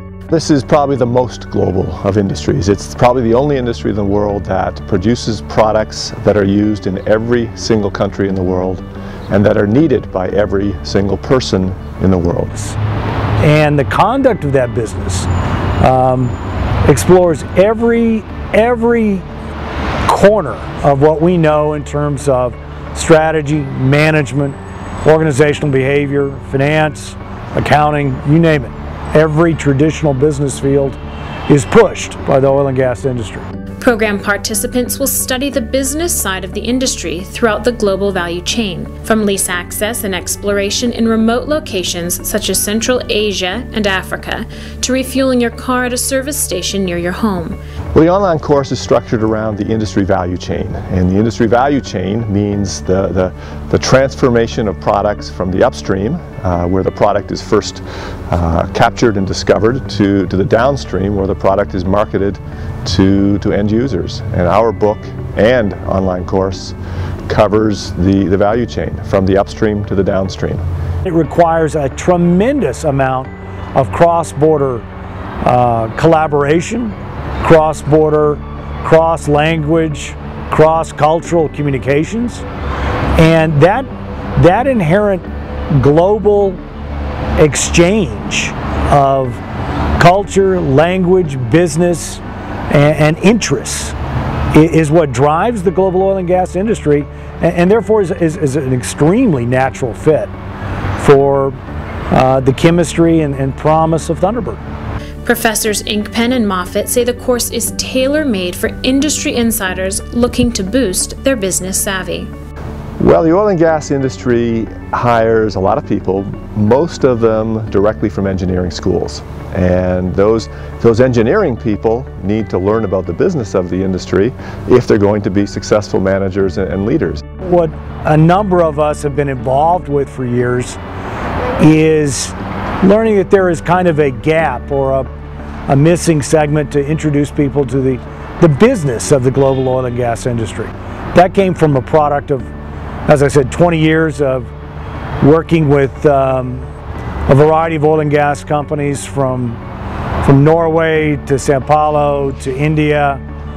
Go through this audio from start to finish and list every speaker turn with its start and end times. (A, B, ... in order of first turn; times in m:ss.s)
0:00.3-0:12.7 A
0:13.4-0:19.2 B
0:20.0-0:33.4 B
0:33.8-0:47.6 C
0:47.9-1:06.7 A
1:07.3-1:10.6 A
1:11.0-1:14.8 B
1:15.4-1:22.4 B
1:23.1-1:26.6 B
1:27.4-1:29.4 B
1:30.0-1:33.9 B
1:34.5-1:40.3 B
1:41.0-1:41.6 B
1:42.1-1:44.6 B
1:45.2-1:52.3 C
1:53.0-2:07.2 A
2:07.4-2:10.8 B
2:11.6-2:15.1 B
2:15.7-2:22.5 B
2:23.0-2:24.5 B
2:25.2-2:26.7 B
2:27.3-2:29.6 B
2:30.2-2:33.2 B